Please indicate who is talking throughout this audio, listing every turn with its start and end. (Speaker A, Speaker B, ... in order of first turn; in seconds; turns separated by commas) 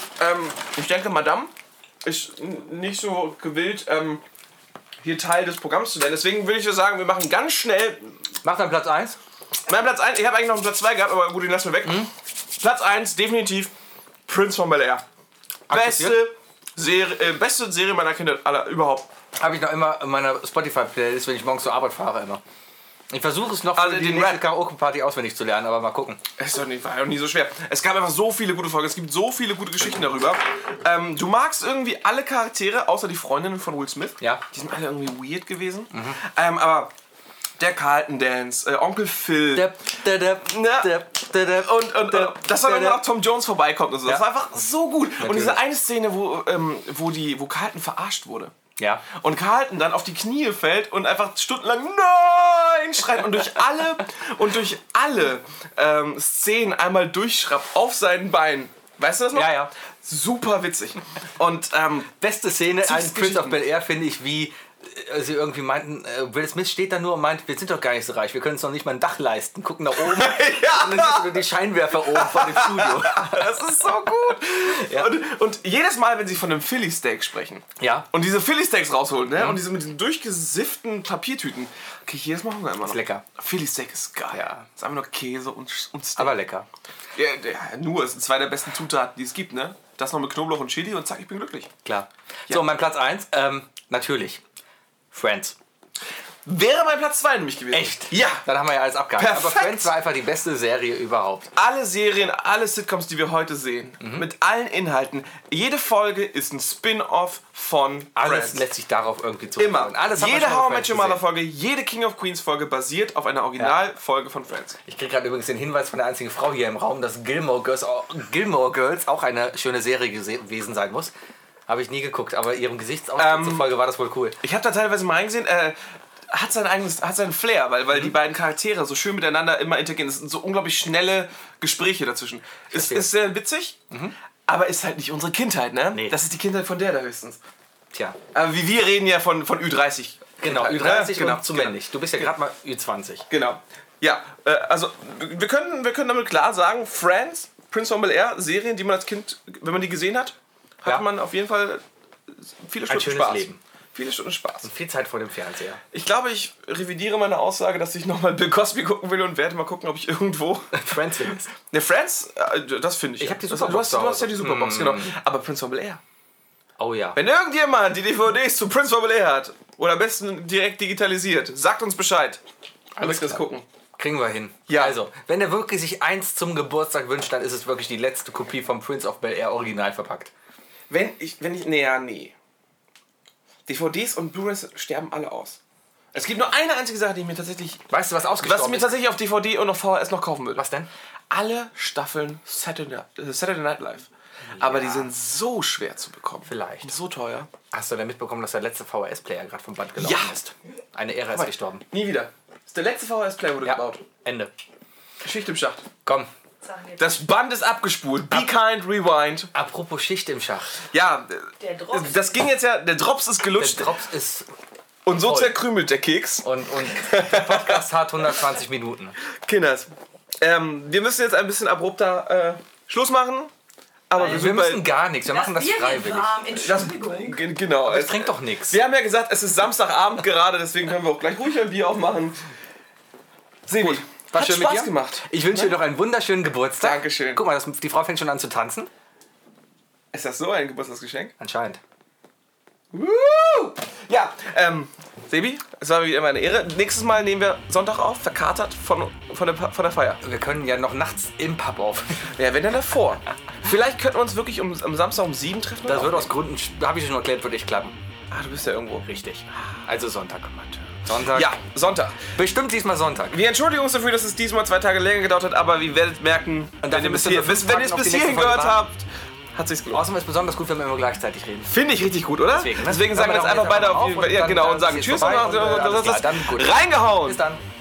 Speaker A: 0.2-1.5, Speaker A: 2.0-4.2, Speaker A: 5.0-8.2, Speaker B: 8.4-9.2, Speaker A: 9.7-13.7, Speaker B: 11.8-12.1, Speaker A: 14.3-15.1, Speaker B: 15.7-16.2, Speaker A: 15.7-19.1, Speaker B: 19.4-22.4, Speaker B: 23.1-26.2, Speaker A: 23.7-24.4, Speaker A: 26.4-36.9, Speaker B: 35.9-36.2, Speaker A: 37.6-39.7, Speaker B: 39.5-43.0, Speaker A: 40.4-48.5, Speaker B: 45.2-45.6, Speaker B: 48.8-49.0, Speaker A: 49.1-62.1, Speaker B: 59.4-59.7, Speaker B: 62.1-73.6, Speaker A: 62.8-63.6, Speaker A: 70.0-86.4, Speaker B: 74.6-75.1, Speaker B: 77.8-78.1, Speaker B: 79.4-79.6, Speaker B: 82.8-83.2, Speaker B: 84.3-84.7, Speaker B: 86.2-86.7, Speaker A: 87.2-91.7, Speaker B: 91.8-94.4, Speaker B: 95.1-95.6, Speaker A: 96.4-98.5, Speaker B: 97.7-101.5, Speaker A: 99.2-99.9, Speaker A: 101.5-108.7, Speaker B: 104.0-104.3, Speaker B: 108.2-111.2, Speaker A: 109.6-114.8, Speaker B: 114.8-121.1, Speaker B: 121.7-124.4, Speaker A: 123.2-123.7, Speaker A: 124.4-133.8, Speaker B: 132.7-133.2, Speaker A: 134.5-137.4, Speaker B: 135.9-136.2, Speaker B: 137.9-138.2, Speaker A: 138.3-142.3, Speaker B: 140.4-143.3, Speaker A: 143.3-154.7, Speaker B: 152.9-153.6, Speaker B: 154.6-155.8, Speaker A: 155.9-160.8, Speaker B: 160.7-161.5, Speaker A: 161.5-166.0, Speaker B: 163.2-165.2, Speaker B: 166.8-167.2, Speaker A: 167.2-172.4, Speaker B: 173.0-180.3, Speaker A: 173.0-173.7, Speaker A: 174.7-174.9, Speaker A: 180.9-182.3, Speaker A: 183.7-185.6, Speaker A: 186.1-187.8, Speaker B: 187.9-188.9, Speaker A: 188.4-190.7, Speaker B: 190.6-190.9, Speaker A: 191.3-197.5, Speaker B: 194.4-195.1, Speaker B: 196.4-196.9, Speaker B: 197.7-201.8, Speaker A: 200.0-200.4, Speaker A: 201.3-204.0, Speaker B: 203.6-204.5, Speaker A: 205.2-205.8, Speaker B: 206.1-206.3, Speaker C: 206.6-207.2, Speaker A: 207.0-209.5, Speaker B: 209.5-210.8, Speaker A: 210.9-214.0, Speaker C: 211.6-212.4, Speaker B: 213.6-214.5, Speaker A: 215.1-217.8, Speaker B: 215.2-215.6, Speaker B: 216.4-219.2, Speaker A: 219.4-223.5, Speaker A: 224.1-224.9, Speaker B: 224.2-226.5, Speaker C: 224.2-224.5, Speaker C: 225.3-227.5, Speaker A: 226.5-232.4, Speaker B: 227.8-228.8, Speaker A: 233.7-235.8, Speaker B: 233.8-238.9, Speaker A: 236.8-237.4, Speaker A: 240.1-241.3, Speaker B: 241.4-241.8, Speaker A: 242.9-250.2, Speaker B: 250.2-252.3, Speaker A: 252.3-256.3, Speaker B: 255.8-258.0, Speaker A: 258.3-259.1, Speaker B: 259.0-261.6, Speaker A: 261.3-262.2, Speaker B: 262.3-263.4, Speaker A: 263.3-270.1, Speaker B: 266.8-268.8, Speaker B: 269.9-271.7, Speaker A: 271.6-277.4, Speaker B: 272.5-277.6